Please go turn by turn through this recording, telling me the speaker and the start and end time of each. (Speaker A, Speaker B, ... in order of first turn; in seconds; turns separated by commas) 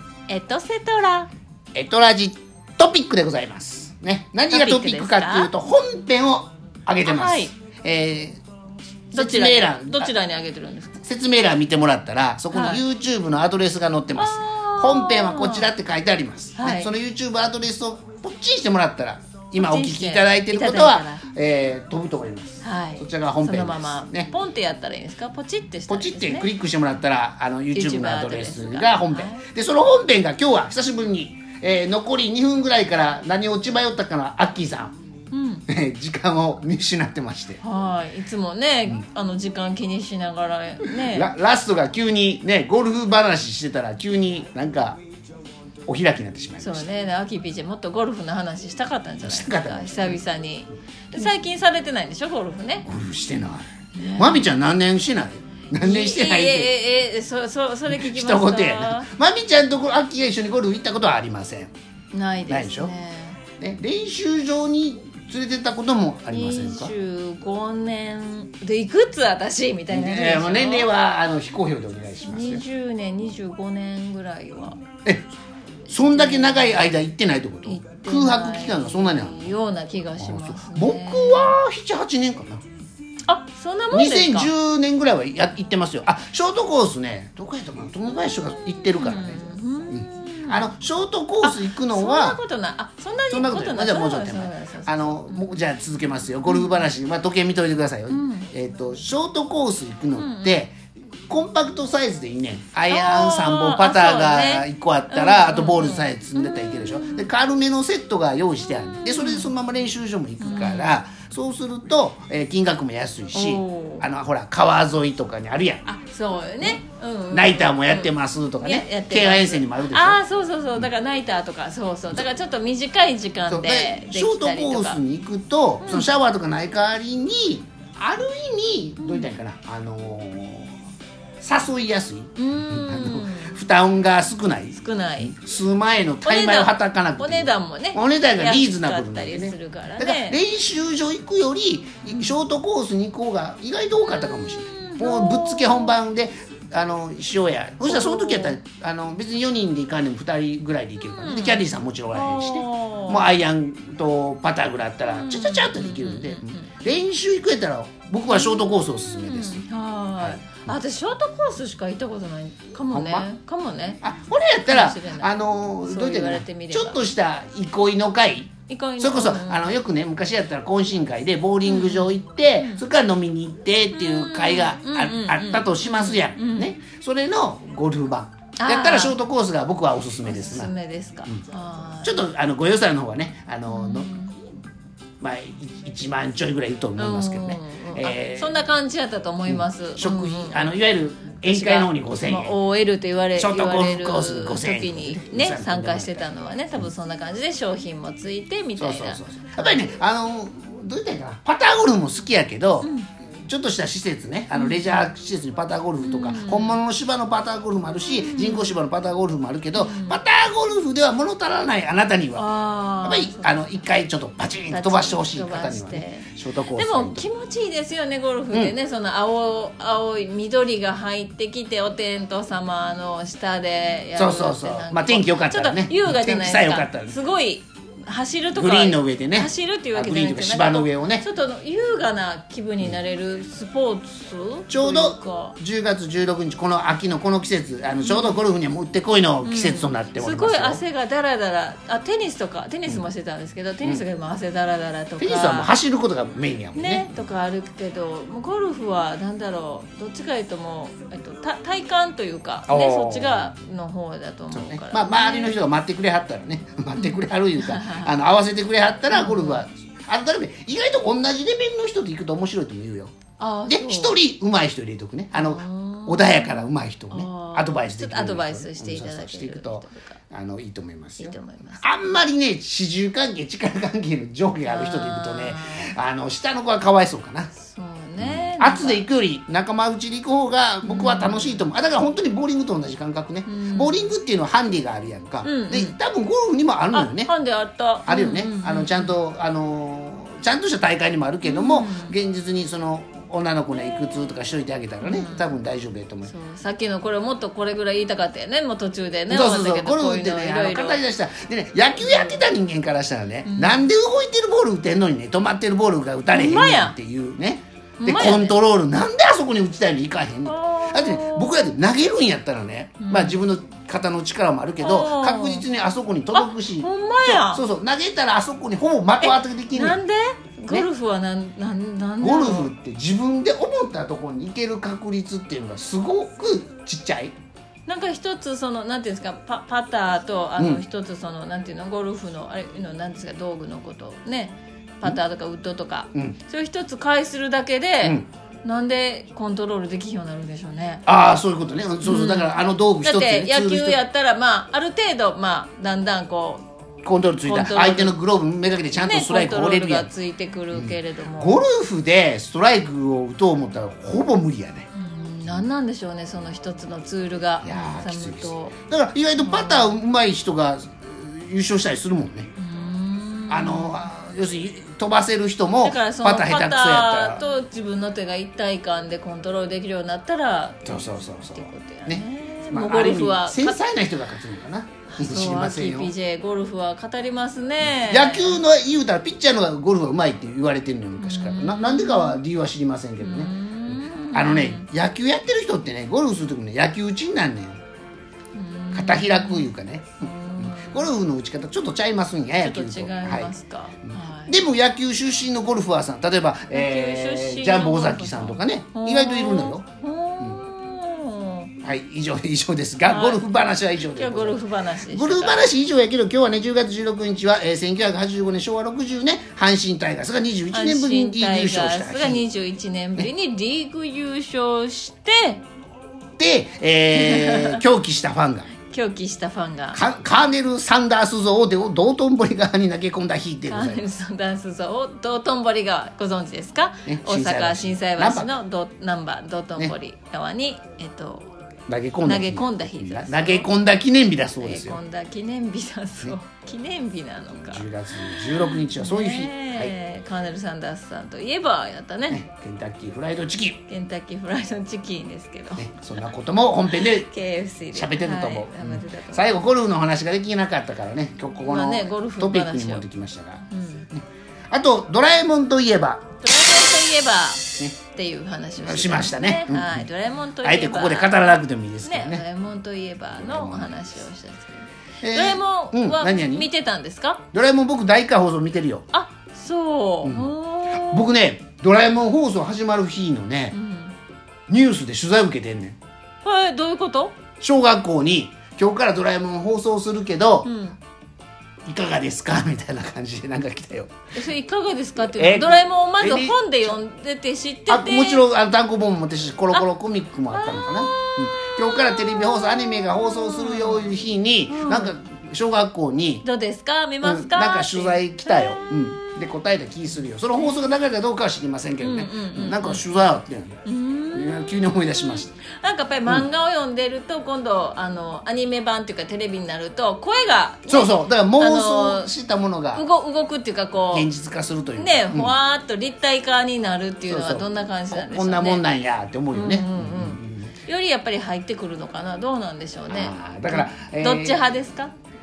Speaker A: 0.3-1.3, Speaker B: 1.7-8.4, Speaker A: 4.5-5.5, Speaker A: 7.0-7.5, Speaker B: 9.1-10.1, Speaker A: 9.1-11.0, Speaker B: 11.0-24.3, Speaker A: 12.5-12.8, Speaker A: 14.2-15.7, Speaker A: 16.6-16.9, Speaker A: 19.6-21.2, Speaker A: 22.6-26.5, Speaker B: 25.9-34.9, Speaker A: 27.7-29.4, Speaker A: 35.3-35.7, Speaker B: 35.7-37.6, Speaker A: 37.6-41.3, Speaker B: 40.9-45.0, Speaker B: 45.9-46.9, Speaker A: 46.6-52.9, Speaker B: 49.2-50.2, Speaker B: 52.9-53.7, Speaker A: 54.0-54.5, Speaker B: 54.2-56.7, Speaker A: 55.7-59.1, Speaker B: 57.9-61.7, Speaker A: 62.1-63.4, Speaker B: 62.5-62.9, Speaker B: 63.6-66.9, Speaker A: 66.3-70.9, Speaker B: 69.9-72.6, Speaker A: 72.2-74.8, Speaker A: 75.9-76.9, Speaker B: 75.9-79.5, Speaker A: 77.7-81.5, Speaker B: 80.2-82.6, Speaker A: 83.3-84.5, Speaker B: 83.9-92.4, Speaker A: 88.5-90.7, Speaker A: 91.4-95.6, Speaker B: 93.3-100.7, Speaker A: 96.5-96.9, Speaker A: 98.1-98.5, Speaker A: 100.2-100.7, Speaker B: 101.3-115.9, Speaker A: 102.9-107.3, Speaker A: 109.0-109.5, Speaker A: 110.4-111.0, Speaker A: 113.3-114.1, Speaker A: 115.8-125.0, Speaker B: 117.3-120.2, Speaker B: 123.5-130.7, Speaker A: 125.8-126.1, Speaker A: 129.0-129.3, Speaker B: 131.4-159.6, Speaker A: 132.4-133.7, Speaker A: 134.7-135.3, Speaker A: 136.2-140.4, Speaker A: 142.1-142.4, Speaker A: 144.1-146.0, Speaker A: 147.8-148.6, Speaker A: 151.2-153.3, Speaker A: 155.1-156.7, Speaker A: 158.3-164.0, Speaker B: 160.2-160.7, Speaker B: 162.9-163.3, Speaker B: 164.0-180.7, Speaker A: 164.7-165.3, Speaker A: 165.9-167.0, Speaker A: 168.7-169.7, Speaker A: 171.6-172.8, Speaker A: 173.9-176.7, Speaker A: 178.6-179.2, Speaker A: 180.2-182.3, Speaker B: 182.0-184.1, Speaker A: 183.7-184.4, Speaker B: 185.2-188.6, Speaker A: 187.0-190.8, Speaker B: 189.5-192.6, Speaker A: 191.4-199.9, Speaker B: 193.4-196.3, Speaker B: 198.8-202.9, Speaker A: 202.8-203.1, Speaker B: 203.5-212.5, Speaker A: 204.5-205.0, Speaker A: 206.0-206.8, Speaker A: 208.2-208.8, Speaker A: 209.8-210.2, Speaker A: 212.4-213.7, Speaker B: 213.0-217.3, Speaker A: 214.7-235.6, Speaker B: 224.2-227.2, Speaker B: 228.5-231.3, Speaker B: 234.7-240.8, Speaker A: 238.0-238.4, Speaker A: 239.4-245.7, Speaker B: 245.2-247.1, Speaker A: 246.8-255.6, Speaker B: 252.7-253.5, Speaker B: 254.5-263.2, Speaker A: 257.0-258.1, Speaker A: 259.1-259.6, Speaker A: 263.4-264.2, Speaker B: 263.7-277.5, Speaker A: 265.3-270.1, Speaker A: 271.2-271.8, Speaker A: 274.7-275.9, Speaker A: 277.6-279.0, Speaker B: 278.2-287.3, Speaker A: 280.8-281.7, Speaker A: 283.4-284.1, Speaker A: 285.4-286.0, Speaker A: 286.9-289.2, Speaker B: 288.1-296.3, Speaker A: 291.4-292.2, Speaker A: 295.0-295.5, Speaker A: 296.2-301.0, Speaker B: 299.3-320.0, Speaker A: 302.0-302.4, Speaker A: 303.4-303.9, Speaker A: 306.3-307.0, Speaker A: 308.0-308.6, Speaker A: 310.4-311.7, Speaker A: 313.0-313.4, Speaker A: 314.8-315.7, Speaker A: 316.3-317.6, Speaker A: 319.2-322.7, Speaker B: 322.2-327.3, Speaker A: 327.9-341.1, Speaker B: 330.6-330.8, Speaker B: 341.1-344.0, Speaker A: 342.0-346.7, Speaker B: 347.0-350.1, Speaker A: 347.4-348.2, Speaker A: 348.9-351.6, Speaker B: 350.7-354.9, Speaker A: 354.9-358.8, Speaker B: 357.6-362.5, Speaker A: 359.4-360.0, Speaker A: 362.6-364.1, Speaker B: 363.5-367.4, Speaker A: 365.8-373.9, Speaker B: 370.9-376.1, Speaker A: 375.1-378.6, Speaker B: 377.9-387.8, Speaker A: 381.2-382.4, Speaker A: 383.2-384.9, Speaker A: 388.5-391.1, Speaker B: 388.9-393.5, Speaker A: 392.6-394.6, Speaker B: 394.1-399.9, Speaker A: 396.7-401.7, Speaker B: 401.8-404.6, Speaker A: 403.1-405.7, Speaker B: 405.1-412.4, Speaker A: 410.7-415.6, Speaker B: 416.4-418.7, Speaker A: 417.1-417.8, Speaker A: 418.9-420.0, Speaker B: 419.9-424.1, Speaker A: 423.7-431.5, Speaker B: 427.1-428.5, Speaker B: 431.9-435.0, Speaker A: 432.2-433.7, Speaker A: 434.6-442.4, Speaker B: 437.6-439.9, Speaker B: 442.3-443.8, Speaker A: 443.9-446.2, Speaker B: 445.8-447.3, Speaker A: 446.9-449.6, Speaker B: 447.9-456.2, Speaker A: 451.6-453.1, Speaker A: 453.7-454.1, Speaker A: 456.4-467.4, Speaker B: 458.8-460.1, Speaker B: 460.6-462.4, Speaker B: 463.4-464.0, Speaker B: 465.2-466.7, Speaker B: 467.5-469.1, Speaker A: 469.1-471.3, Speaker B: 470.2-473.8, Speaker A: 473.7-474.1, Speaker B: 474.7-476.0, Speaker A: 476.4-477.4, Speaker B: 477.6-480.7, Speaker A: 480.6-481.0, Speaker B: 481.9-484.1, Speaker A: 484.3-488.5, Speaker B: 485.2-487.0, Speaker B: 487.9-496.4, Speaker A: 490.5-495.1, Speaker A: 496.4-499.5, Speaker B: 497.2-503.8, Speaker A: 502.0-503.1, Speaker A: 503.9-512.3, Speaker B: 504.3-505.5, Speaker B: 510.9-513.0, Speaker A: 512.9-514.3, Speaker B: 514.1-515.5, Speaker A: 515.0-518.9, Speaker B: 517.3-520.7, Speaker A: 519.5-525.1, Speaker B: 523.1-524.7